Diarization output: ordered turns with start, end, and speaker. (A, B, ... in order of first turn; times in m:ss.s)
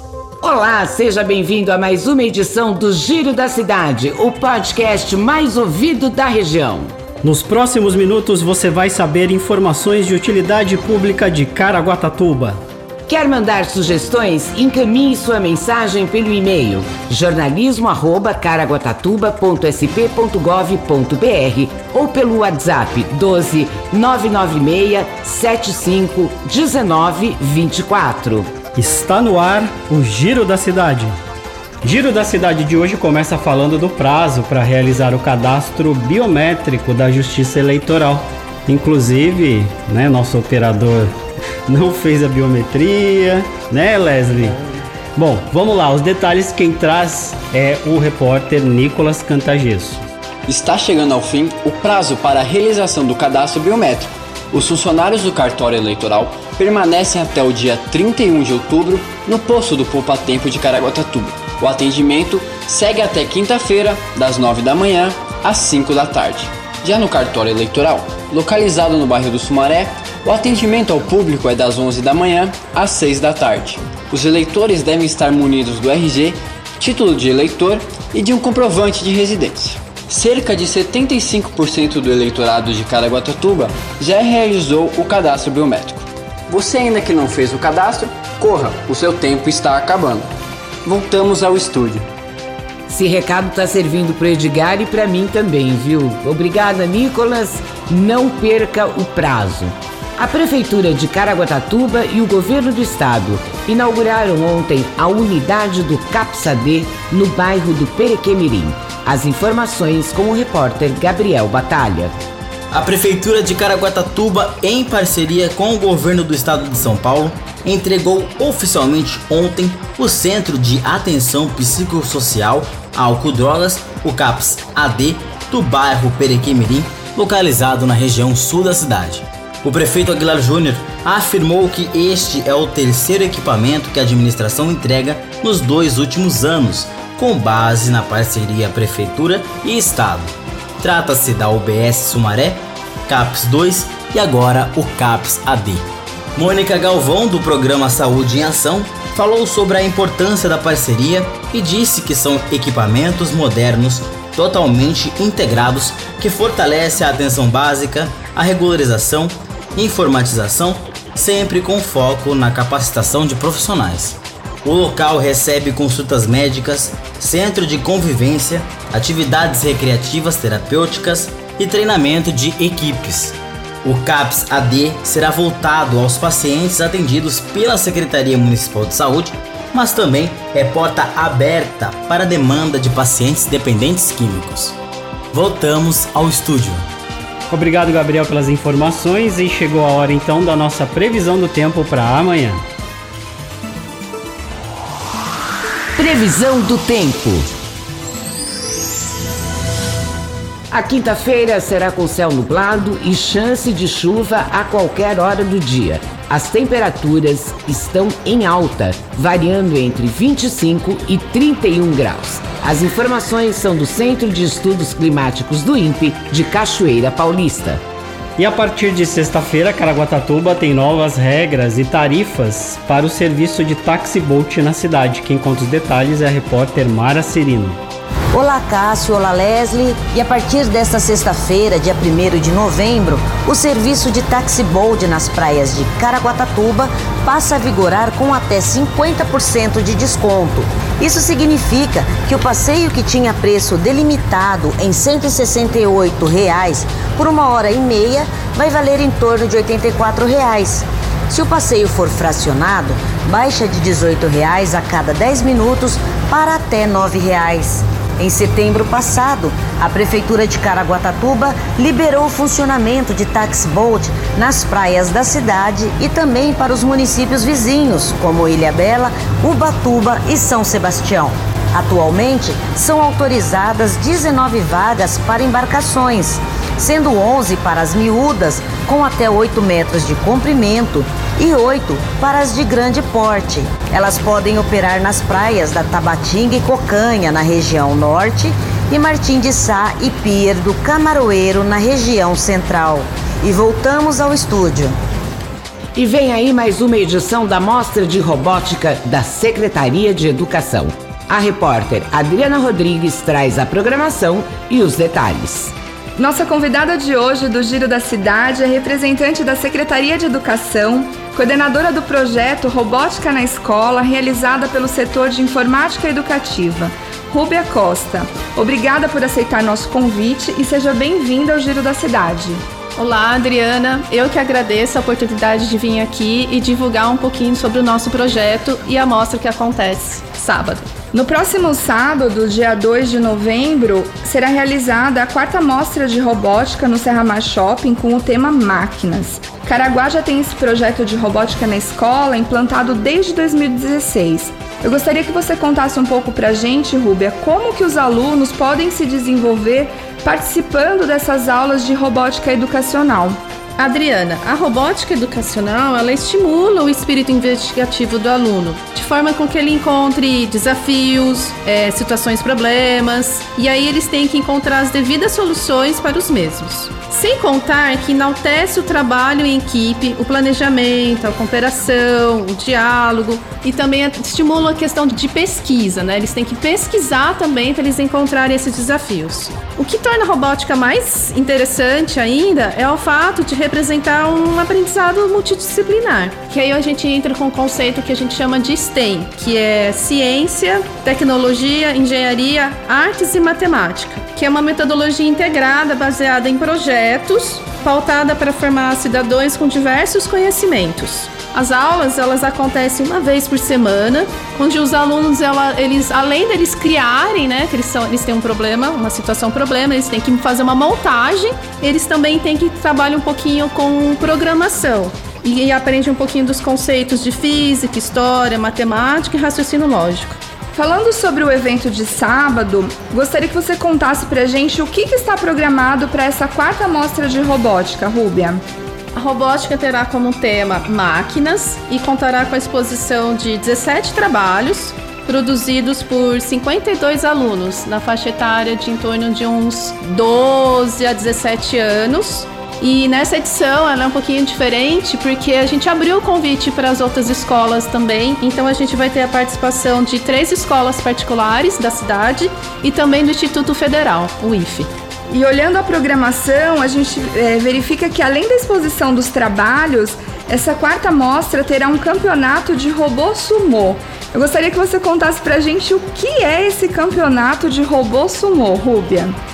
0:00.4-0:06.9 A
0:07.2-0:12.6 B
0:13.1-0:28.5 A
0:28.8-0:31.1 B
0:31.8-0:41.1 B
0:41.7-0:44.6 B
0:45.2-0:50.0 B
0:50.4-1:30.3 C
1:30.8-1:32.1 C
1:32.9-1:52.1 A
1:52.7-2:25.8 D
2:26.4-3:04.8 D
3:05.3-3:06.8 D
3:07.5-3:12.6 B
3:16.0-3:17.5 A
3:20.7-3:37.8 A
3:38.4-3:47.8 B
3:48.3-4:54.9 E
4:56.0-5:05.7 A
5:06.2-5:22.6 F
5:23.0-5:30.9 G
5:31.1-5:53.4 F
5:53.8-7:00.4 G
7:00.7-7:08.6 F
7:09.1-7:34.9 G
7:35.3-7:49.3 F